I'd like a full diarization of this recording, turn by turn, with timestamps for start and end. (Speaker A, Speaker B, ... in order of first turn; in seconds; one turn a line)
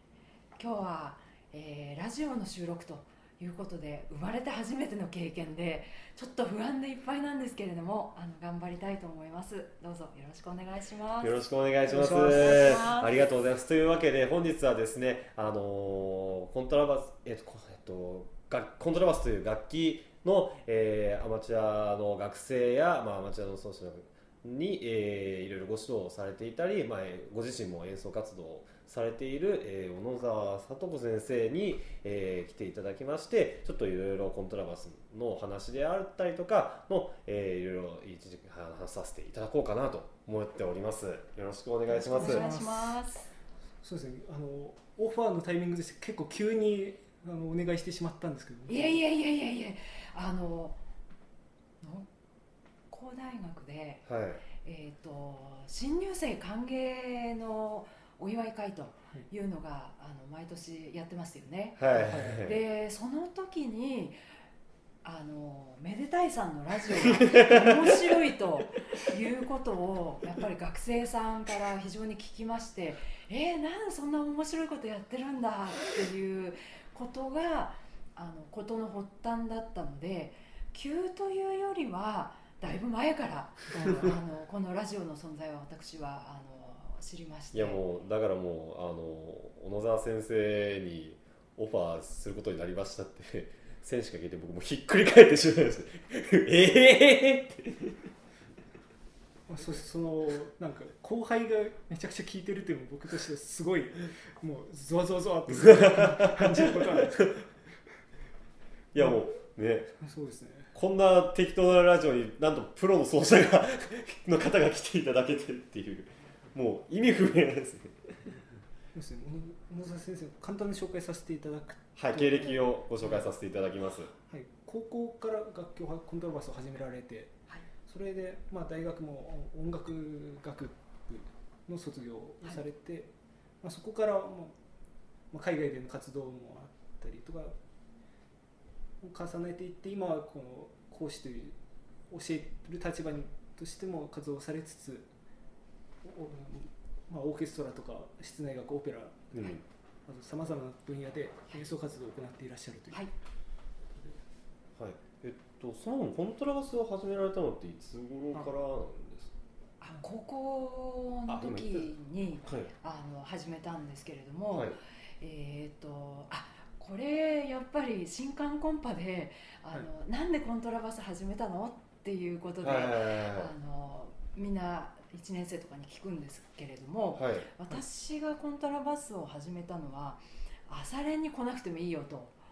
Speaker A: 0.6-11.4
Speaker B: 11.2-42.5
Speaker C: 11.9-12.9
Speaker A: 11.9-13.2
Speaker A: 41.9-43.3
Speaker C: 42.1-43.0
Speaker C: 43.8-49.0
Speaker A: 48.7-50.8
Speaker A: 51.8-52.1
Speaker A: 52.9-54.0
Speaker B: 54.0-54.4
Speaker A: 54.6-64.2
Speaker B: 61.8-62.6
Speaker C: 61.9-62.4
Speaker A: 65.0-87.8
Speaker B: 67.0-67.9
Speaker C: 83.7-84.0
Speaker B: 87.5-98.1
Speaker C: 99.5-107.5
Speaker B: 105.5-107.2
Speaker B: 108.9-109.9
Speaker C: 109.0-109.3
Speaker C: 110.0-110.7
Speaker B: 110.7-118.3
Speaker C: 118.9-123.3
Speaker B: 122.0-124.1
Speaker C: 124.2-127.3
Speaker C: 127.8-133.1
Speaker C: 133.6-134.5
Speaker C: 135.3-137.5
Speaker C: 139.0-141.6
Speaker C: 142.1-145.1
Speaker C: 146.0-149.5
Speaker B: 149.3-149.6
Speaker C: 150.1-153.0
Speaker B: 154.8-159.3
Speaker A: 159.8-182.4
Speaker B: 161.3-161.9
Speaker B: 162.4-162.7
Speaker B: 172.6-173.5
Speaker B: 177.2-177.5